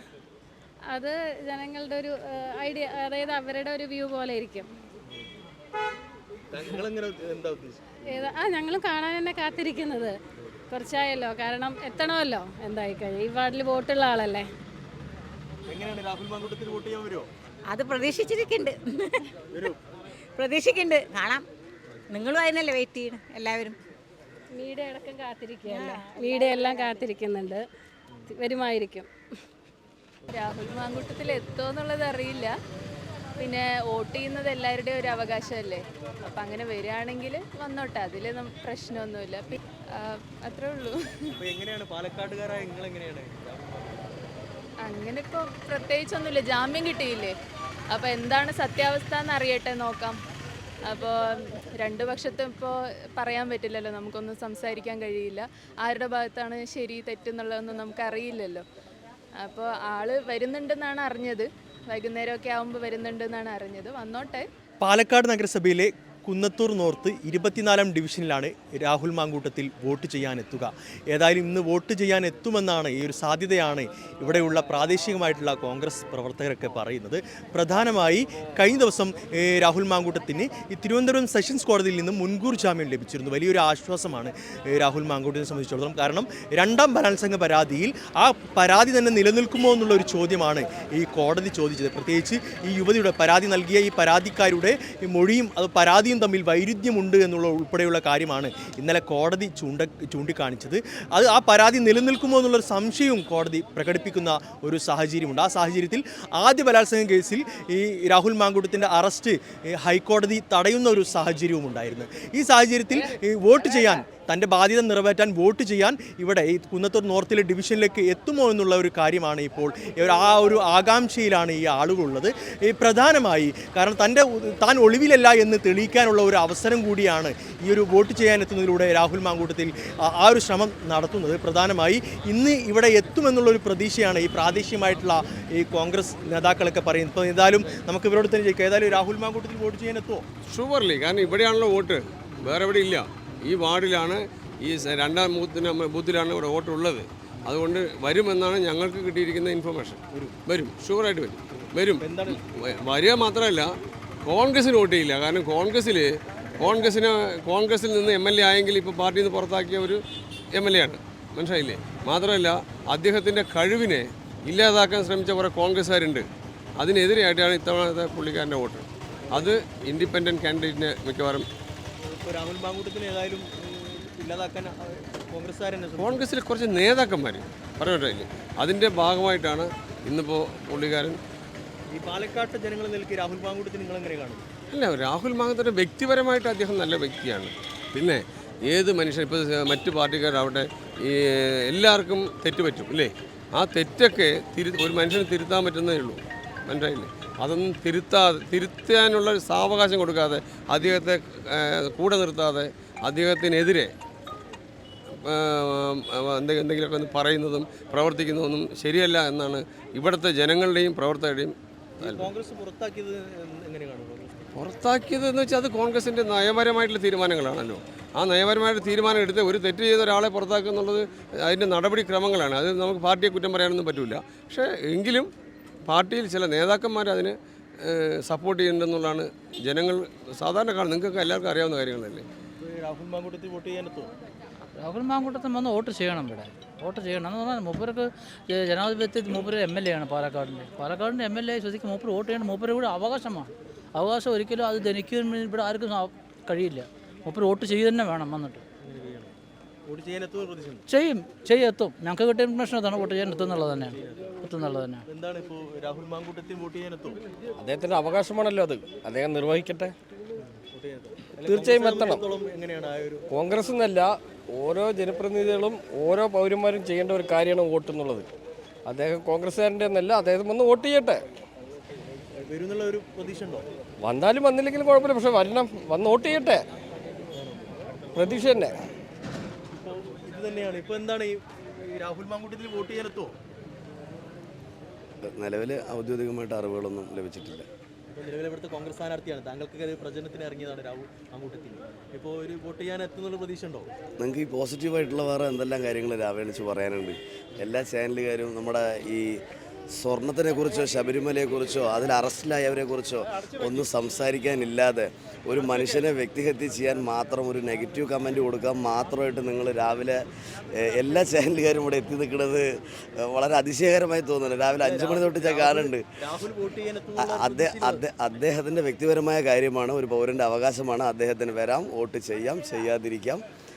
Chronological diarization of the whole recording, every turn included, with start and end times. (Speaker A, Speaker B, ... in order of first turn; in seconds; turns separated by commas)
Speaker A: 0.9-4.7, Speaker B: 6.5-8.0, Speaker A: 8.1-10.2, Speaker A: 10.7-14.5, Speaker B: 15.7-17.3, Speaker C: 17.7-19.3, Speaker C: 20.4-21.4, Speaker C: 22.1-23.8, Speaker A: 24.5-27.6, Speaker C: 25.7-26.4, Speaker A: 28.3-29.1, Speaker D: 30.3-32.5, Speaker D: 33.4-41.4, Speaker B: 41.4-44.1, Speaker D: 44.8-47.3, Speaker D: 47.9-50.2, Speaker D: 50.9-58.6, Speaker D: 59.4-64.5, Speaker B: 64.8-140.2, Speaker E: 140.5-153.7, Speaker B: 150.1-150.4, Speaker B: 151.5-152.4, Speaker E: 154.2-156.0, Speaker E: 156.6-160.0, Speaker E: 160.5-166.2, Speaker E: 166.8-171.5, Speaker B: 172.0-176.3, Speaker E: 176.0-181.2, Speaker B: 181.9-184.4, Speaker E: 184.7-203.9, Speaker E: 205.2-212.3, Speaker B: 212.0-214.5, Speaker E: 214.5-225.3, Speaker E: 225.9-232.2, Speaker B: 232.6-234.1, Speaker F: 234.7-248.6, Speaker B: 248.8-249.3, Speaker B: 249.8-250.8, Speaker F: 250.9-255.0, Speaker B: 253.8-254.4, Speaker B: 255.1-257.2, Speaker G: 257.6-259.9, Speaker B: 260.4-263.2, Speaker G: 261.4-262.2, Speaker G: 263.3-268.3, Speaker G: 268.9-271.2, Speaker B: 272.4-273.6, Speaker G: 274.0-276.6, Speaker B: 277.3-278.4, Speaker G: 278.1-278.8, Speaker B: 279.7-283.3, Speaker H: 285.2-287.6, Speaker B: 288.1-293.9, Speaker H: 294.2-299.4, Speaker H: 300.0-310.2, Speaker H: 310.7-316.0, Speaker B: 314.8-318.0, Speaker H: 317.2-323.4